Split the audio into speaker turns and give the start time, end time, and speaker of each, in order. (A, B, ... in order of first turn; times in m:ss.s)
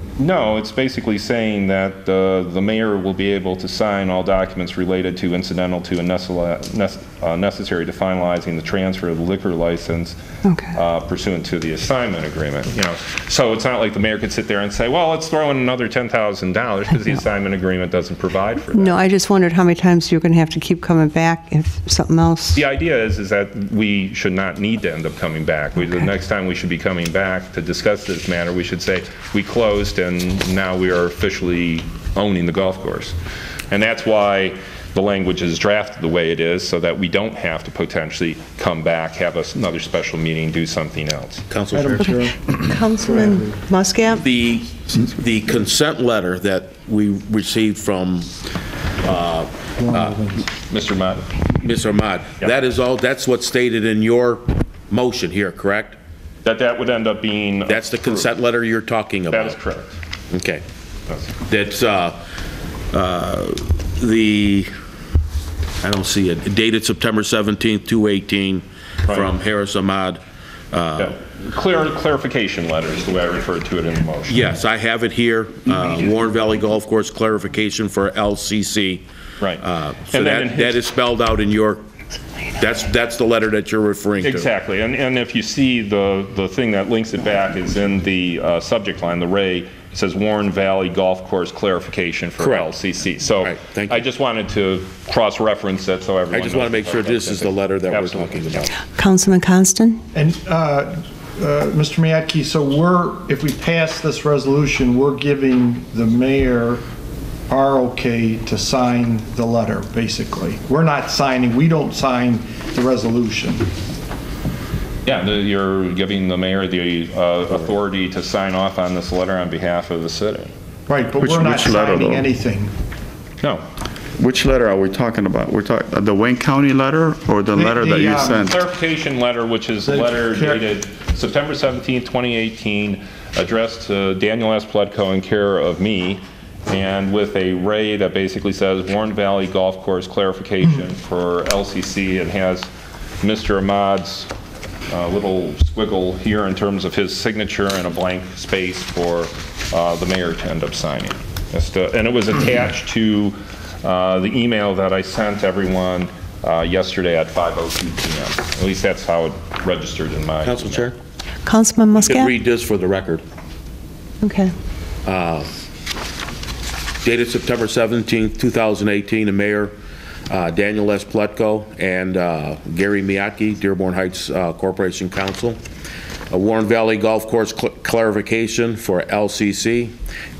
0:00.2-0:10.2 A
0:10.4-0:10.8 B
0:10.7-0:19.0 A
0:18.7-0:22.6 B
0:22.5-0:33.1 A
0:33.7-0:41.5 A
0:41.5-0:42.0 C
0:41.7-0:42.4 D
0:42.1-0:44.2 B
0:43.0-0:43.5 D
0:44.2-0:48.3 C
0:49.0-0:50.2 C
0:49.8-0:50.4 D
0:50.7-0:51.3 A
0:51.6-0:56.0 C
0:56.4-0:58.3 A
0:57.7-0:59.6 C
0:59.3-1:00.0 A
1:00.3-1:00.6 C
1:01.4-1:02.2 C
1:02.9-1:04.7 C
1:05.8-1:10.2 C
1:10.7-1:11.1 C
1:11.0-1:14.5 A
1:14.3-1:19.0 C
1:19.4-1:20.8 A
1:19.6-1:21.8 C
1:22.6-1:24.5 C
1:24.2-1:38.7 A
1:32.4-1:32.6 C
1:33.4-1:34.0 C
1:36.3-1:38.7 C
1:38.9-1:40.0 B
1:40.1-1:46.8 D
1:47.5-1:53.7 D
1:55.0-2:00.5 A
2:00.9-2:02.7 D
2:01.2-2:02.3 E
2:04.2-2:08.6 E
2:07.5-2:08.4 D
2:08.4-2:22.7 A
2:09.8-2:10.6 D
2:23.2-2:24.3 A
2:24.9-2:40.9 A
2:40.4-2:41.0 C
2:41.4-2:42.3 B
2:42.0-2:43.2 C
2:44.2-2:44.5 B
2:45.0-2:45.5 C
2:47.0-2:49.7 C
2:50.3-2:55.6 C
2:56.3-2:59.9 C